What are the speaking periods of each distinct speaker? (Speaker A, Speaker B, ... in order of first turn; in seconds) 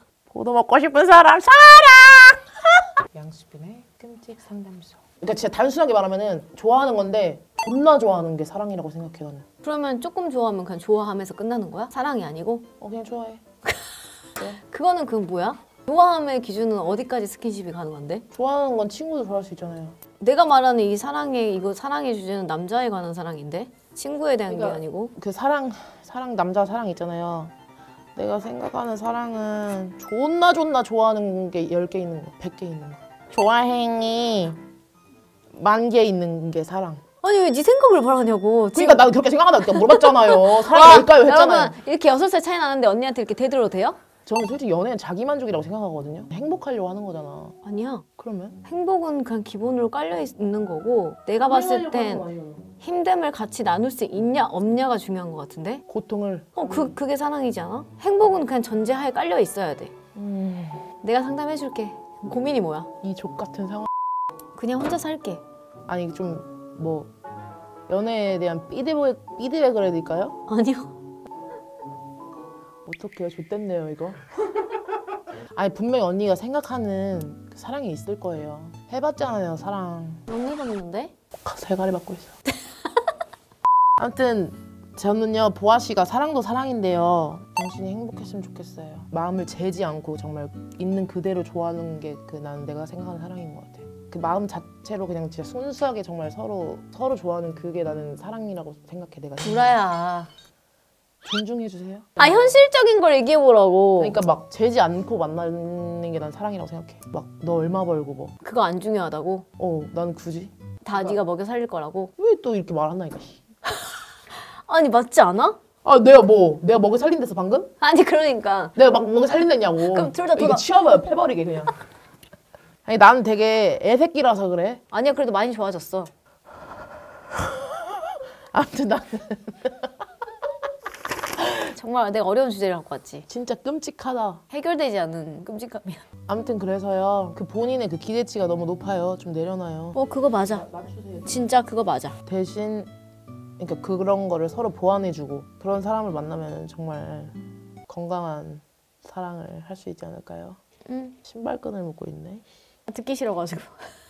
Speaker A: 0.3-2.6, 3.1-9.4, 12.8-13.4, 18.3-20.0, 24.5-27.5, 28.1-34.6, 35.5-37.0, 38.7-41.8, 44.2-47.5, 48.2-48.6, 51.4-52.6, 55.9-56.9, 60.1-60.9, 63.0-63.9, 65.9-67.1, 67.9-70.4, 72.8-74.3, 75.5-80.2, 81.4-82.3, 84.0-99.8, 101.2-102.6, 104.0-108.3, 109.6-111.2, 112.2-113.4, 115.8-117.7, 118.7-121.8, 122.8-124.8, 128.5-129.9, 133.3-134.4, 136.3-141.4, 142.2-142.9, 143.6-147.3, 147.9-150.6, 151.2-152.4
Speaker B: 9.6-12.7, 14.5-18.2, 20.2-25.1, 37.2-39.0, 39.6-44.0, 47.6-48.0, 48.6-52.2, 52.8-55.8, 56.5-59.9, 61.0-62.9, 64.5-65.4, 70.5-70.9, 80.3-81.1, 99.4-100.3, 102.2-104.2, 108.4-109.4, 110.8-112.1, 113.7-115.6, 117.8-118.7, 119.8-120.9, 124.9-126.1, 131.6-133.3, 134.5-136.1, 139.9-140.7, 141.2-142.2, 150.9-151.2, 152.9-153.8